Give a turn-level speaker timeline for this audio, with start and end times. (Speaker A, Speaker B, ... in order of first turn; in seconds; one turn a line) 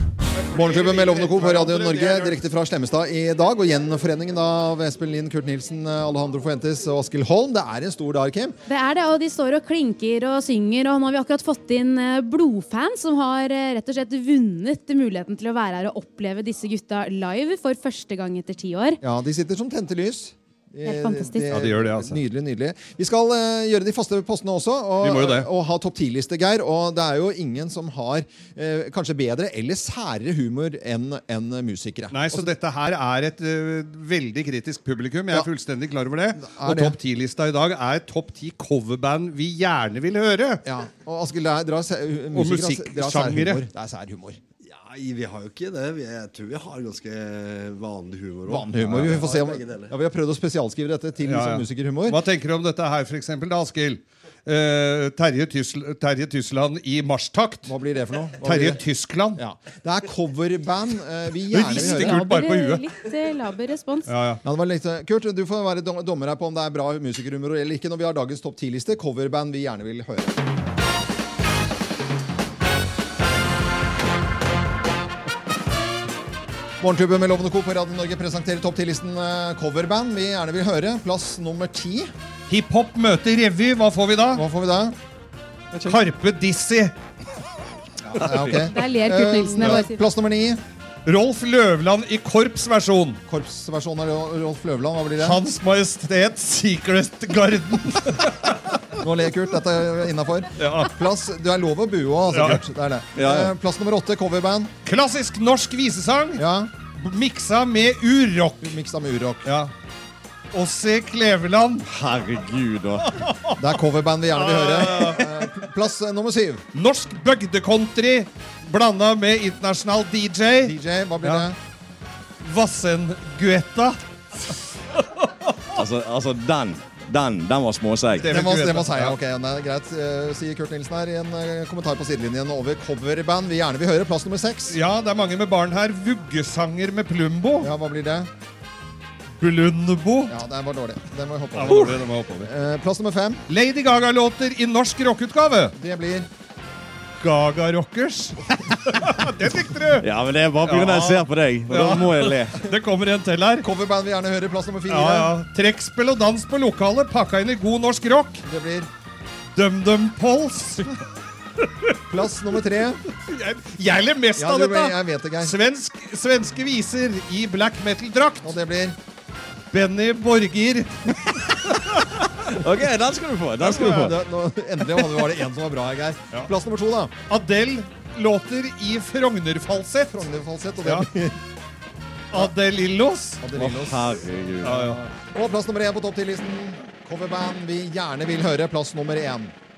Speaker A: 0.3-2.4
Speaker B: 0.5-8.6
Speaker C: 8.7-19.0
Speaker B: 19.0-32.5
Speaker C: 20.8-21.5
Speaker A: 21.5-22.2
Speaker A: 25.0-25.5
Speaker A: 32.1-40.6
Speaker B: 36.4-37.0
Speaker B: 40.6-44.4
Speaker A: 42.3-43.6
Speaker D: 44.6-49.9
Speaker B: 48.5-52.2
Speaker A: 51.2-57.7
Speaker B: 57.7-58.8
Speaker A: 58.4-59.4
Speaker B: 59.4-62.2
Speaker A: 61.5-62.9
Speaker C: 61.7-64.1
Speaker A: 64.1-64.4
Speaker B: 64.4-70.4
Speaker B: 76.8-82.1
Speaker A: 82.5-84.4
Speaker B: 84.3-85.0
Speaker A: 85.9-87.0
Speaker B: 88.2-90.6
Speaker A: 88.2-88.7
Speaker C: 88.7-90.0
Speaker A: 91.1-93.2
Speaker B: 93.3-95.4
Speaker A: 95.2-98.6
Speaker B: 99.0-104.7
Speaker A: 100.6-100.9
Speaker A: 102.3-102.6
Speaker E: 103.2-103.5
Speaker A: 104.8-106.4
Speaker B: 106.4-106.7
Speaker A: 107.0-108.7
Speaker B: 108.6-109.5
Speaker A: 109.5-109.7
Speaker A: 110.5-111.8
Speaker E: 111.8-113.1
Speaker A: 113.1-113.6
Speaker B: 113.6-116.6
Speaker A: 114.3-115.4
Speaker A: 116.7-121.5
Speaker B: 120.6-121.6
Speaker A: 122.4-124.0
Speaker E: 125.8-128.3
Speaker A: 128.2-129.2
Speaker B: 128.2-134.8
Speaker A: 134.7-137.7
Speaker B: 137.6-138.3
Speaker A: 139.4-140.3
Speaker B: 140.3-143.4
Speaker A: 141.6-142.5
Speaker A: 143.5-145.7
Speaker B: 145.8-146.3
Speaker A: 147.2-150.1
Speaker E: 150.0-152.6
Speaker A: 150.6-153.7
Speaker B: 153.6-155.3
Speaker A: 154.9-158.4
Speaker B: 158.5-158.9
Speaker A: 159.6-161.0
Speaker B: 162.1-163.0
Speaker A: 163.2-168.5
Speaker B: 164.4-165.6
Speaker B: 168.4-169.0
Speaker A: 169.7-171.5
Speaker E: 172.5-174.1
Speaker A: 173.6-174.1
Speaker B: 173.9-177.1
Speaker A: 177.3-180.3
Speaker B: 180.1-181.4
Speaker A: 182.3-183.4
Speaker B: 183.4-184.0
Speaker E: 183.6-184.9
Speaker A: 184.6-185.0
Speaker B: 185.0-189.5